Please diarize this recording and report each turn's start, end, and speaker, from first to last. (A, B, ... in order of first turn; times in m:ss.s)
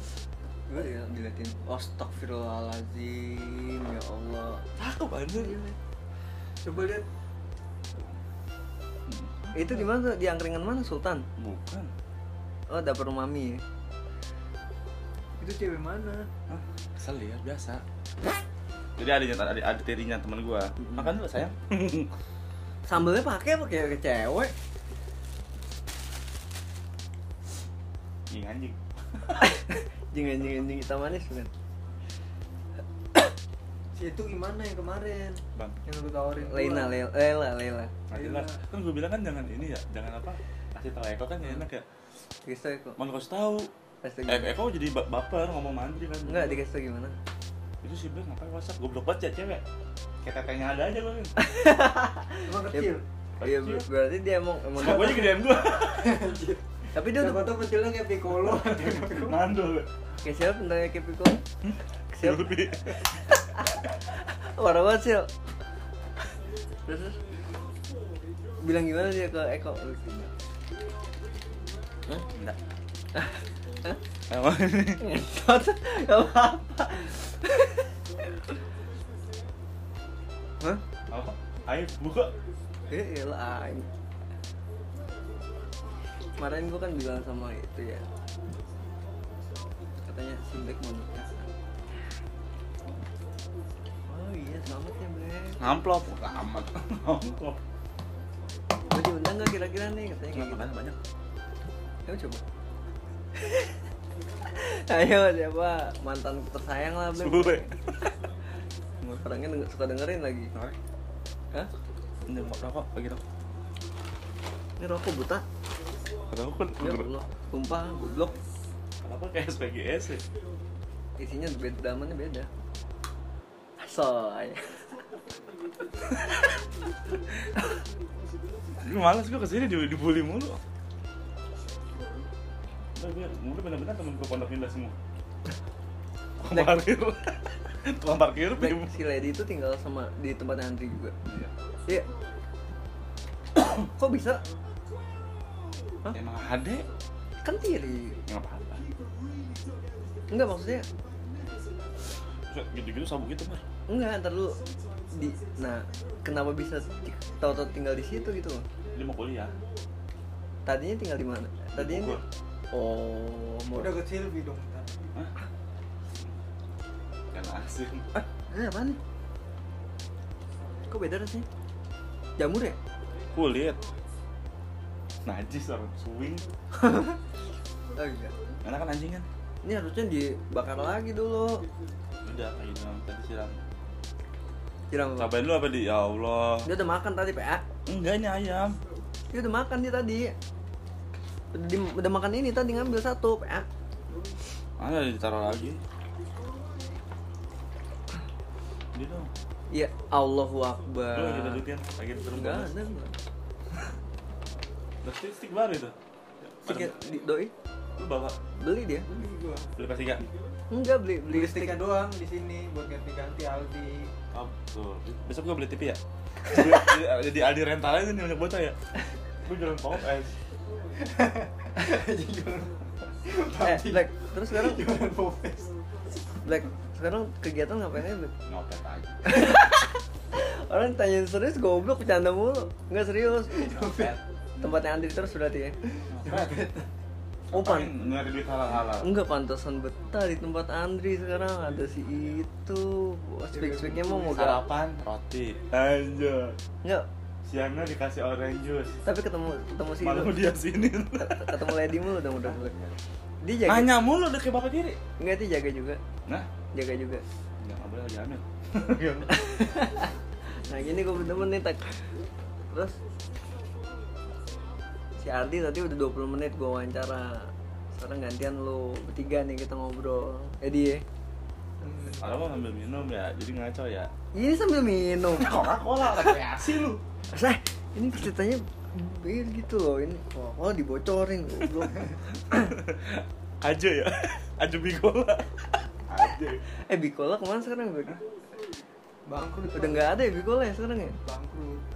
0:00.7-0:04.6 A
0:04.8-0:05.6 B
0:05.3-0:05.8 A
0:06.6-0:07.1 C
0:09.1-0:09.9 B
0:09.5-0:11.3 A
0:11.4-0:11.9 B
0:12.7-0:13.6 A
0:15.4-0:16.3 C
0:16.5-0:17.8 B
0:19.0-0:22.1 B
0:20.8-0:21.1 A
0:22.9-0:24.5 A
0:28.3-0:29.4 B
0:29.4-0:31.5 A
0:33.9-0:37.0 C
0:36.4-0:37.9 A
0:38.1-0:41.8 B
0:38.1-0:38.6 C
0:42.4-0:43.0 A
0:43.0-0:43.7 B
0:44.0-0:44.5 A
0:44.3-0:46.6 B
0:46.2-0:47.2 A
0:47.8-0:49.6 B
0:50.2-0:51.4 B
0:51.4-0:55.4 A
0:52.5-0:53.0 C
0:53.4-0:53.9 B
0:54.8-0:56.3 B
0:55.6-0:59.4 C
0:56.9-0:57.6 A
0:58.5-0:59.9 B
1:00.2-1:01.4 A
1:01.6-1:03.1 B
1:02.1-1:05.3 A
1:06.8-1:07.2 A
1:08.6-1:10.3 A
1:12.3-1:12.6 B
1:13.2-1:14.0 A
1:14.3-1:15.0 B
1:15.0-1:17.9 A
1:21.1-1:22.3 B
1:22.9-1:23.9 A
1:26.4-1:28.1 A
1:30.1-1:31.5 A
1:34.1-1:35.6 A
1:35.6-1:37.6 B
1:38.9-1:40.7 A
1:40.3-1:41.0 B
1:42.1-1:42.4 A
1:43.4-1:43.7 A
1:44.5-1:47.8 A
1:47.2-1:47.7 B
1:49.1-1:50.5 A
1:52.3-1:53.2 B
1:54.8-1:55.4 A
1:56.3-1:57.1 B
1:56.8-1:58.4 A
1:59.0-2:00.2 B
2:01.2-2:02.5 A
2:03.8-2:04.9 A
2:08.8-2:10.6 B
2:13.0-2:15.0 B
2:16.4-2:19.0 B
2:16.5-2:16.8 A
2:18.6-2:21.1 A
2:21.3-2:21.5 B
2:23.6-2:24.4 A
2:26.1-2:26.9 B
2:27.4-2:28.2 A
2:28.3-2:28.8 B
2:30.3-2:30.9 A
2:32.5-2:33.6 B
2:33.9-2:38.7 A
2:38.9-2:39.6 B
2:40.7-2:42.2 A
2:41.8-2:42.2 B
2:42.7-2:44.0 A
2:43.7-2:45.0 C
2:47.3-2:48.2 B
2:48.2-2:49.0 A
2:50.9-2:51.5 A
2:52.4-2:52.8 A
2:53.3-2:53.8 B
2:55.2-2:56.5 B
2:56.8-2:57.2 A
2:58.0-2:58.3 A
2:58.6-2:59.3 B
2:59.6-3:01.7 A
3:02.2-3:03.6 B
3:04.9-3:05.3 A
3:05.2-3:06.7 B
3:06.7-3:07.6 A
3:07.9-3:08.8 B
3:09.3-3:10.3 A
3:11.5-3:13.7 A
3:14.8-3:15.8 B
3:18.9-3:19.3 B
3:19.7-3:21.6 A
3:21.1-3:22.8 B
3:22.3-3:23.1 A
3:25.0-3:26.9 B
3:26.6-3:27.5 A
3:28.0-3:28.4 B
3:28.6-3:29.1 A
3:29.1-3:29.7 C
3:29.8-3:30.3 B
3:30.7-3:31.8 A
3:31.3-3:34.1 C
3:34.3-3:38.8 B
3:39.4-3:40.3 B
3:41.0-3:45.7 C
3:43.6-3:44.8 A
3:46.4-3:48.3 A
3:48.5-3:49.5 B
3:49.2-3:54.0 A
3:53.5-3:54.2 C
3:53.8-3:54.2 B
3:54.6-3:55.8 A
3:56.1-3:56.7 B
3:56.2-3:56.9 C
3:57.5-3:59.1 B
3:57.5-3:57.9 A
3:59.0-4:04.6 A
4:03.5-4:04.4 C
4:04.3-4:06.6 B
4:07.4-4:09.0 B
4:09.0-4:10.4 A
4:10.0-4:13.0 B
4:11.2-4:12.7 A
4:13.4-4:13.9 A
4:13.7-4:15.0 B
4:15.2-4:16.0 A
4:16.7-4:17.2 A
4:17.6-4:19.5 B
4:19.3-4:22.0 A
4:22.7-4:23.0 A
4:25.2-4:31.0 A
4:31.8-4:32.3 C
4:32.1-4:34.1 B
4:34.3-4:35.7 A
4:35.3-4:37.0 B
4:37.3-4:42.7 A
4:42.5-4:46.6 B
4:46.8-4:48.2 A
4:49.3-4:50.2 C
4:49.7-4:51.2 A
4:51.2-4:51.8 C